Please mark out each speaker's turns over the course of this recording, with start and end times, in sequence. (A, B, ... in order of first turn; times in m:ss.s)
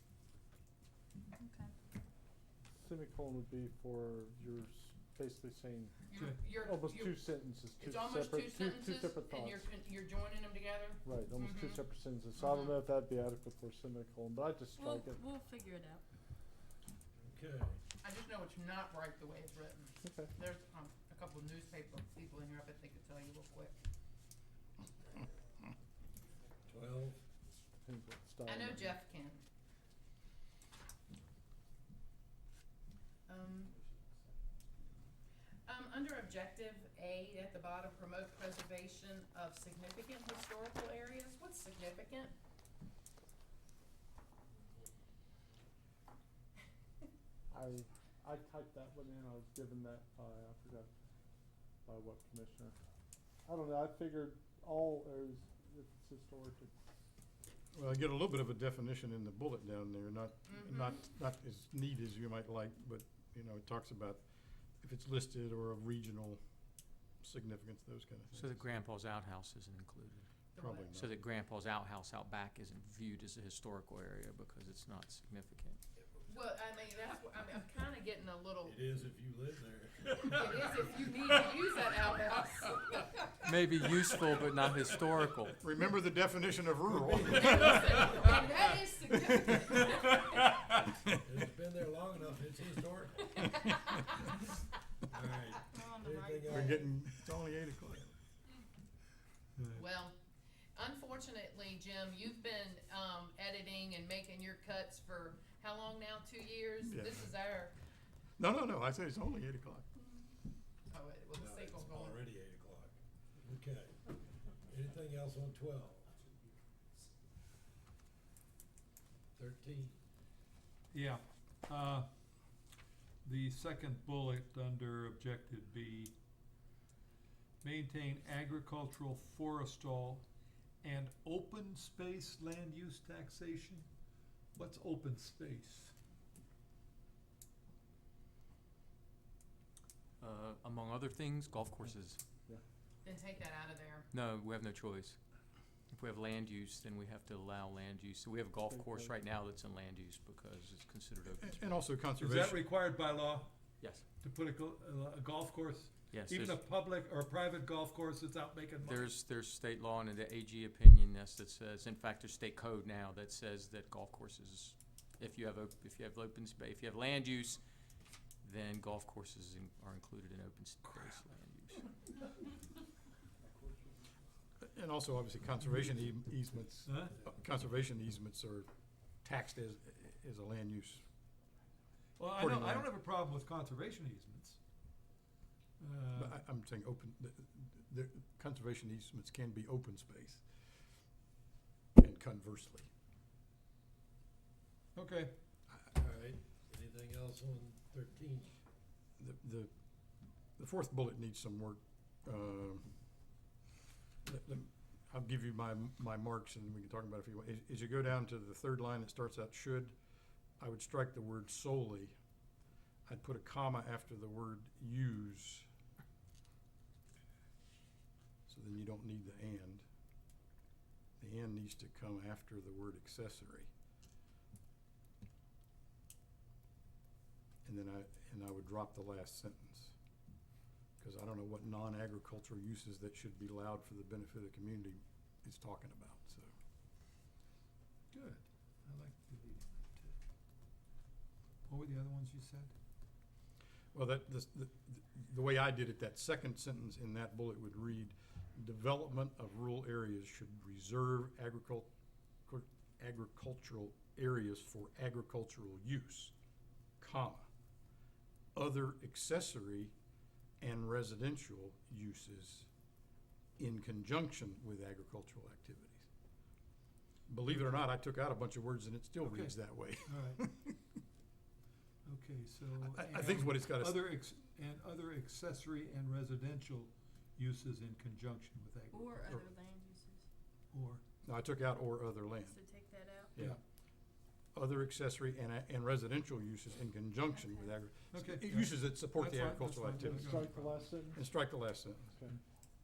0:01.4-0:01.7 A
0:02.8-0:09.6 B
0:06.1-0:07.3 C
0:06.2-0:06.4 D
0:07.8-0:11.8 C
0:11.0-0:15.2 B
0:12.4-0:12.7 C
0:14.8-0:16.0 A
0:17.2-0:17.8 E
0:18.0-0:23.7 C
0:20.0-0:20.3 B
0:26.7-0:27.2 E
0:27.8-0:29.0 B
0:28.4-0:29.4 C
0:33.3-0:33.7 C
0:35.6-0:42.3 C
0:47.5-0:50.9 B
0:51.8-0:52.8 B
0:53.4-0:56.9 B
0:57.7-1:04.2 F
1:00.5-1:01.0 C
1:04.8-1:06.4 F
1:07.2-1:08.7 F
1:08.3-1:10.3 G
1:10.5-1:10.9 C
1:10.6-1:11.2 F
1:10.9-1:15.8 G
1:16.2-1:18.8 C
1:18.6-1:21.1 E
1:20.3-1:23.4 C
1:23.4-1:25.6 G
1:25.6-1:28.1 F
1:26.9-1:28.1 E
1:27.3-1:30.4 C
1:29.1-1:29.8 F
1:30.1-1:30.8 D
1:31.2-1:33.4 E
1:33.3-1:34.1 C
1:35.1-1:36.8 E
1:35.6-1:36.9 A
1:36.4-1:38.1 F
1:39.6-1:39.8 D
1:39.7-1:40.2 C
1:40.8-1:47.7 C
1:46.9-1:47.3 F
1:48.4-1:49.9 F
1:50.9-1:52.2 C
1:51.3-1:56.1 E
1:59.4-2:00.0 E
2:00.9-2:02.1 D
2:03.2-2:06.1 D
2:07.6-2:10.2 D
2:10.8-2:13.9 D
2:14.5-2:15.9 D
2:20.2-2:22.2 G
2:23.0-2:24.1 C
2:24.1-2:25.2 G
2:25.9-2:31.9 G
2:28.7-2:29.1 B
2:31.3-2:32.6 F
2:32.2-2:33.5 D
2:33.8-2:34.0 G
2:34.2-2:39.2 D
2:36.1-2:36.6 G
2:38.8-2:47.6 G
2:48.4-2:51.9 G
2:53.5-2:53.9 B
2:54.6-2:58.7 F
2:56.8-2:57.2 D
2:59.2-3:01.0 F
3:02.2-3:04.6 D
3:02.3-3:02.9 F
3:05.8-3:06.4 D
3:06.1-3:10.4 F
3:12.0-3:12.9 F
3:15.0-3:15.4 D
3:15.8-3:18.5 E
3:19.2-3:19.7 F
3:20.6-3:23.0 F
3:24.2-3:30.0 F
3:30.6-3:32.2 F
3:33.1-3:35.7 F
3:38.5-3:39.8 F
3:41.2-3:43.7 F
3:47.6-3:49.9 F
3:51.0-3:56.5 F
3:58.1-4:00.1 D
4:01.7-4:02.7 D
4:03.9-4:11.9 F
4:12.4-4:16.3 F
4:17.0-4:17.5 F
4:18.5-4:19.9 F
4:20.6-4:22.7 F
4:23.6-4:26.0 F
4:27.3-4:30.8 F
4:27.5-4:27.8 D
4:29.2-4:30.4 D
4:32.0-4:39.4 D
4:32.8-4:34.1 F
4:38.9-4:40.2 A
4:40.7-4:41.0 D
4:41.2-4:42.6 F
4:42.4-4:43.4 A
4:44.5-4:52.2 F
4:47.3-4:47.7 A
4:48.1-4:50.7 D
4:50.1-4:51.4 B